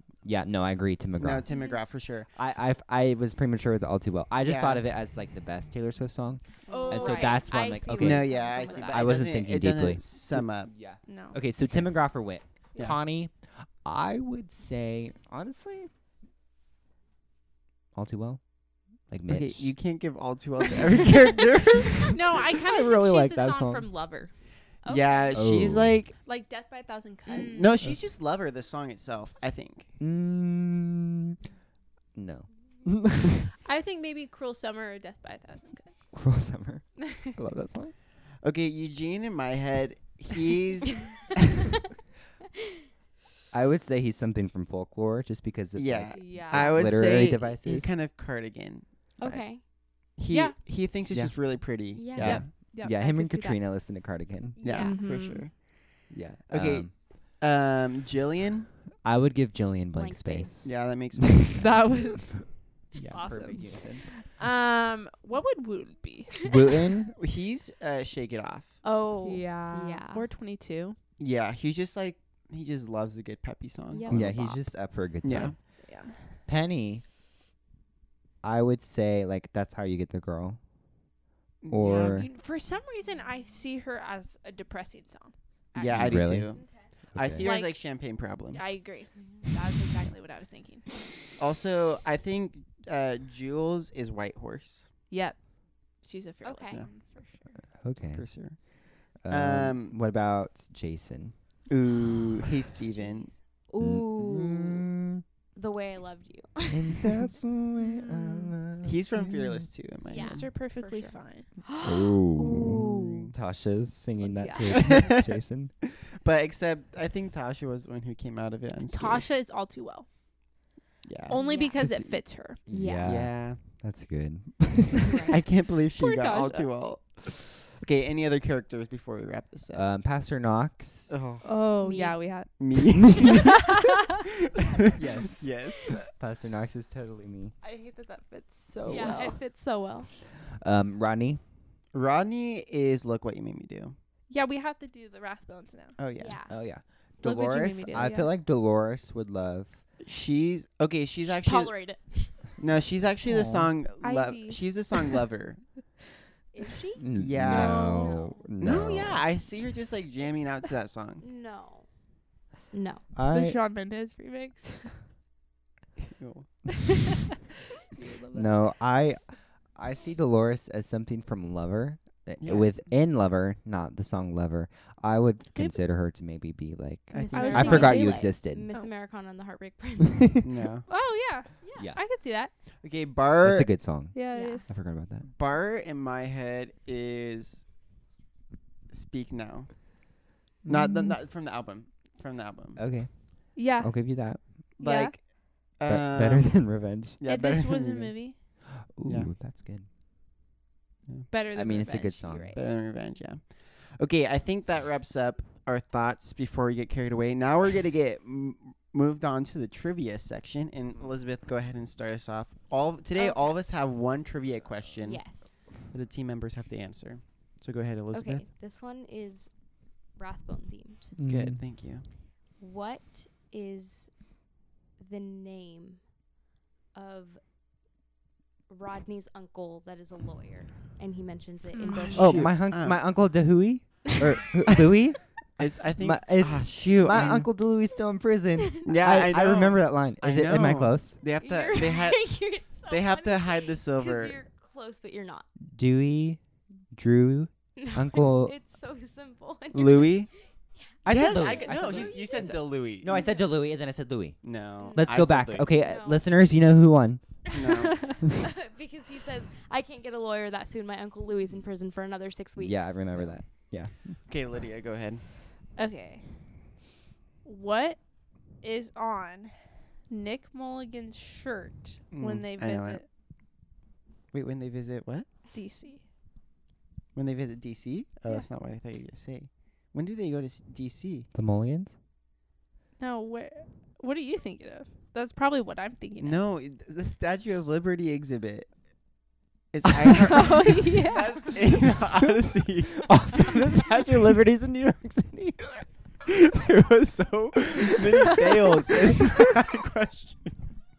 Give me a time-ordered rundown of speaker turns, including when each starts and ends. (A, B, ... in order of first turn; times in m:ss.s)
0:00.2-0:01.4 A
0:01.2-0:02.3 B
0:01.5-0:01.8 C
0:02.3-0:15.9 A
0:04.4-0:04.8 B
0:06.7-0:07.4 D
0:06.7-0:09.2 C
0:07.9-0:10.8 B
0:11.0-0:11.4 D
0:17.9-0:19.7 A
0:19.3-0:22.2 B
0:22.1-0:24.3 D
0:22.6-0:23.9 A
0:24.8-0:25.4 C
0:24.9-0:26.1 B
0:25.3-0:26.0 A
0:26.2-0:27.7 D
0:27.3-0:27.7 C
0:27.4-0:29.9 B
0:30.0-0:31.4 A
0:32.1-0:33.4 A
0:33.6-0:36.1 D
0:36.1-0:37.9 A
0:38.4-0:41.6 B
0:43.5-0:47.9 A
0:45.8-0:48.9 B
0:46.1-0:46.9 D
0:49.2-0:49.6 C
0:49.2-0:49.4 A
0:50.2-0:52.5 B
0:50.3-0:50.6 D
0:51.1-0:51.4 A
0:51.9-0:52.4 C
0:52.0-0:54.6 A
0:52.2-0:53.6 D
0:54.6-0:55.0 C
0:54.6-0:55.8 B
0:54.8-0:55.4 D
0:56.1-0:57.0 A
0:56.5-0:58.7 B
0:59.0-1:01.6 A
0:59.9-1:00.6 C
1:00.6-1:01.6 B
1:01.5-1:02.6 D
1:02.9-1:04.1 A
1:03.1-1:06.5 D
1:06.4-1:07.1 A
1:07.2-1:08.8 B
1:08.8-1:10.3 C
1:08.9-1:11.0 D
1:11.2-1:14.4 B
1:13.9-1:14.6 C
1:14.1-1:15.8 A
1:15.2-1:15.5 B
1:15.8-1:16.2 D
1:16.4-1:17.0 A
1:18.4-1:20.6 A
1:21.6-1:22.2 B
1:21.7-1:22.3 A
1:22.1-1:26.4 D
1:25.8-1:28.9 B
1:25.8-1:26.5 A
1:27.1-1:27.5 A
1:27.4-1:31.0 D
1:31.4-1:34.9 B
1:35.1-1:37.5 D
1:36.4-1:36.8 C
1:37.8-1:38.6 A
1:38.1-1:40.0 B
1:39.2-1:41.4 A
1:41.7-1:43.3 B
1:42.9-1:44.9 C
1:43.8-1:45.2 A
1:45.5-1:47.2 C
1:46.7-1:49.7 A
1:47.8-1:48.6 D
1:48.8-1:50.5 B
1:50.1-1:53.3 C
1:50.1-1:51.5 D
1:51.8-1:55.7 A
1:52.9-1:53.3 B
1:54.2-1:55.0 D
1:54.7-1:55.4 B
1:56.0-1:59.2 B
1:58.9-2:00.1 D
2:01.0-2:02.0 B
2:01.3-2:01.8 C
2:01.3-2:02.6 D
2:02.6-2:05.2 A
2:02.7-2:03.1 C
2:02.9-2:03.6 B
2:05.0-2:05.3 C
2:05.3-2:09.9 B
2:06.0-2:06.9 D
2:09.7-2:11.1 A
2:11.1-2:11.4 B
2:11.4-2:12.6 D
2:11.8-2:12.2 C
2:12.6-2:13.7 B
2:13.1-2:13.9 D
2:14.5-2:16.1 B
2:14.9-2:17.5 A
2:17.6-2:19.4 D
2:18.9-2:20.1 C
2:20.5-2:21.4 A
2:21.9-2:23.9 B
2:24.3-2:26.0 D
2:26.0-2:26.4 B
2:26.2-2:26.6 C
2:26.5-2:29.8 A
2:27.2-2:28.3 D
2:30.0-2:31.8 B
2:31.2-2:32.5 C
2:32.6-2:35.6 B
2:33.2-2:33.7 A
2:34.0-2:34.6 D
2:36.5-2:37.0 C
2:37.0-2:39.2 A
2:37.2-2:38.0 B
2:37.4-2:38.2 D
2:37.6-2:38.5 C
2:38.6-2:41.2 B
2:41.2-2:41.9 C
2:42.7-2:43.0 C
2:43.1-2:43.6 A
2:43.3-2:45.1 D
2:46.0-2:46.8 B
2:47.9-2:48.5 D
2:48.3-2:58.7 A
2:52.4-2:52.9 B
2:57.1-2:58.0 B
2:57.2-3:00.3 C
2:57.3-2:58.9 D
3:00.4-3:00.9 B
3:00.9-3:02.5 D
3:01.6-3:01.9 C
3:02.8-3:03.7 B
3:03.4-3:05.2 A
3:04.1-3:04.7 D
3:04.3-3:04.6 C
3:05.2-3:07.7 B
3:08.9-3:12.8 B
3:10.6-3:11.1 A
3:12.8-3:14.7 A
3:13.5-3:15.2 D
3:14.8-3:18.5 B
3:15.9-3:17.2 A
3:17.2-3:18.4 D
3:18.8-3:19.9 A
3:19.0-3:19.3 B
3:21.3-3:22.6 D
3:21.5-3:22.6 A
3:22.5-3:38.5 B
3:33.2-3:33.6 C
3:35.0-3:35.5 C
3:38.1-3:39.5 C
3:40.1-3:41.1 C
3:41.2-3:41.6 A
3:41.2-3:42.0 B
3:42.6-3:44.3 C
3:45.0-3:46.0 C
3:46.9-3:47.4 C
3:48.7-3:52.4 C
3:51.7-3:52.4 D
3:52.1-3:53.0 B
3:52.1-4:01.2 A
3:55.6-3:57.5 B
3:58.9-4:04.4 B
4:01.4-4:05.5 C
4:05.7-4:06.4 A
4:06.9-4:08.5 A
4:07.8-4:12.6 C
4:09.7-4:10.3 B
4:11.0-4:17.5 A
4:11.0-4:13.3 B
4:13.1-4:13.4 C
4:14.4-4:15.7 B
4:14.8-4:15.1 C
4:15.8-4:16.2 C
4:17.5-4:18.1 B
4:18.4-4:23.0 C
4:22.6-4:24.2 A
4:24.2-4:25.2 B
4:25.8-4:26.6 D
4:27.4-4:33.0 D
4:32.1-4:33.0 B
4:34.3-4:35.3 B
4:35.5-4:36.0 D
4:37.1-4:41.3 B
4:41.3-4:41.9 A
4:43.0-4:46.4 D
4:46.2-4:48.8 B
4:49.7-4:54.0 B
4:50.2-4:51.6 D
4:53.0-4:55.8 A
4:56.2-5:00.6 B